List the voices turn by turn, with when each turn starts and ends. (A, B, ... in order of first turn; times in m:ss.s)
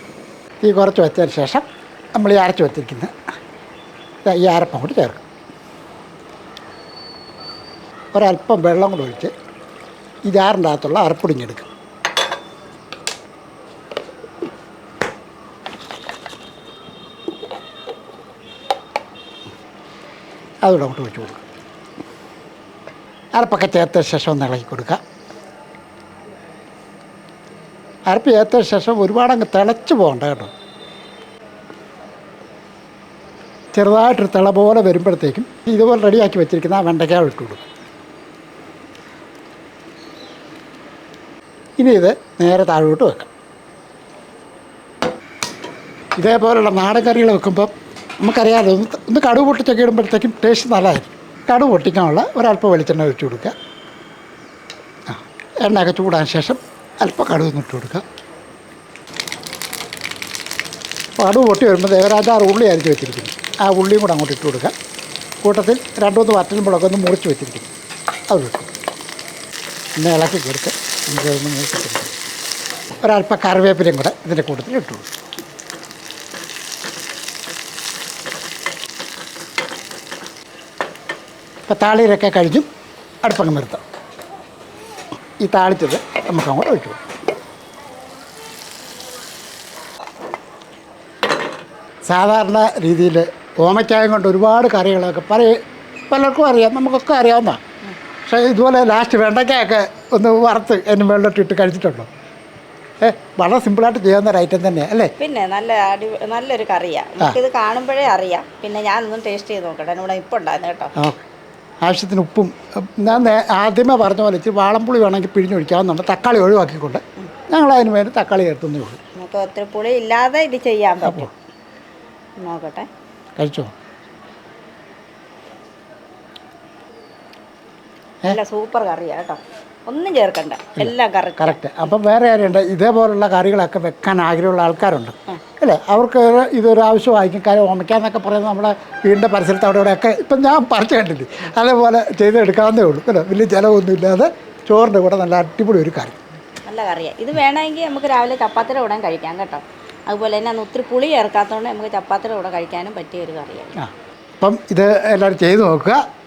0:00.6-0:03.1 A
0:04.2-0:05.2 A
0:08.1-0:09.3 A
0:10.3-0:11.7 A
0:20.6-0:21.4 A
0:23.4-0:25.0 A
0:28.1-0:30.5 A
0:33.7-0:37.6 A
0:41.8-0:43.3 A
0:46.2-0:53.5 A
0:55.1-0:58.0 A
1:01.2-1:04.7 A
1:05.4-1:07.7 A
1:08.3-1:08.7 A
1:10.0-1:12.1 A
1:13.0-1:15.1 A
1:21.7-1:22.6 A
1:23.2-1:23.8 A
1:25.4-1:27.0 A
1:32.0-1:35.6 A
1:36.1-1:37.6 A
1:38.2-1:42.1 A
1:43.0-1:45.1 A
1:45.2-1:50.9 B
1:51.0-1:51.2 A
1:51.8-1:59.0 A
1:59.2-2:01.3 B
2:01.0-2:01.3 A
2:02.4-2:02.9 B
2:03.4-2:03.7 A
2:08.3-2:11.6 B
2:10.8-2:26.2 A
2:26.6-2:33.7 B
2:33.8-2:36.0 A